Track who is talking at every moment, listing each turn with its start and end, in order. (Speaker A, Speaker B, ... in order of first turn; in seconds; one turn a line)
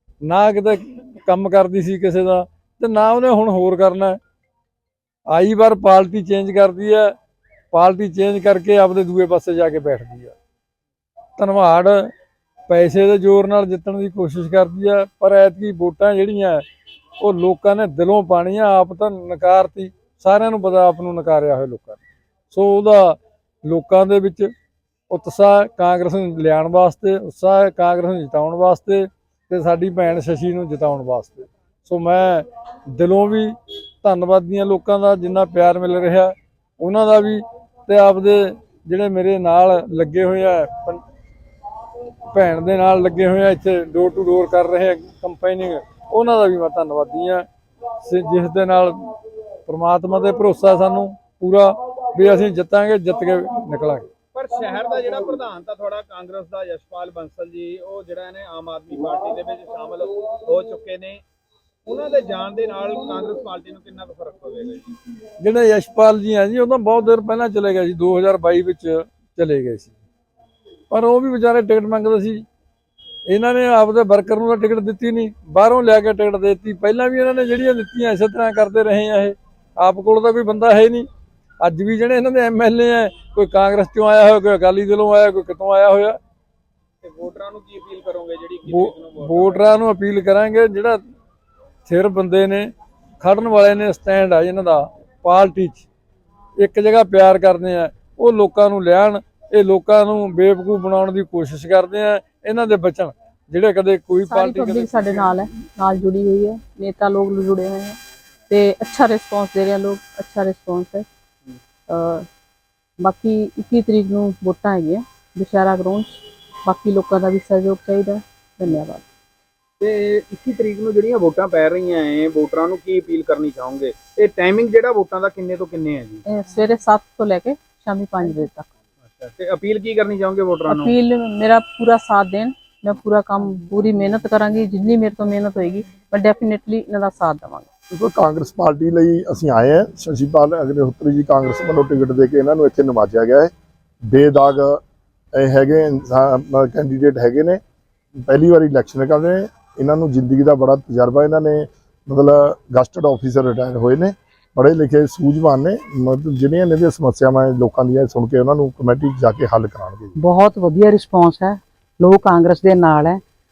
Speaker A: 0.2-4.2
Speaker A: 5.3-7.1
Speaker A: 7.7-10.3
Speaker A: 11.4-12.1
Speaker A: 12.7-16.6
Speaker A: 17.2-22.0
Speaker A: 22.5-24.5
Speaker A: 25.1-41.0
Speaker A: 42.3-47.5
Speaker A: 48.0-49.1
Speaker A: 49.7-54.1
Speaker B: 54.3-61.2
Speaker B: 61.9-64.9
Speaker A: 65.4-69.9
Speaker A: 70.9-72.4
Speaker A: 73.3-81.1
Speaker A: 81.6-86.2
Speaker B: 87.0-89.8
Speaker A: 88.7-91.0
Speaker A: 91.9-92.7
Speaker A: 93.2-95.9
Speaker A: 96.6-105.2
Speaker C: 104.3-108.0
Speaker C: 108.5-111.1
Speaker C: 111.9-112.3
Speaker C: 113.0-119.0
Speaker B: 119.8-126.2
Speaker C: 126.3-128.7
Speaker B: 129.1-130.9
Speaker C: 130.7-137.7
Speaker D: 137.9-143.5
Speaker D: 144.1-144.8
Speaker D: 145.3-147.6
Speaker D: 148.2-160.2
Speaker E: 160.2-163.2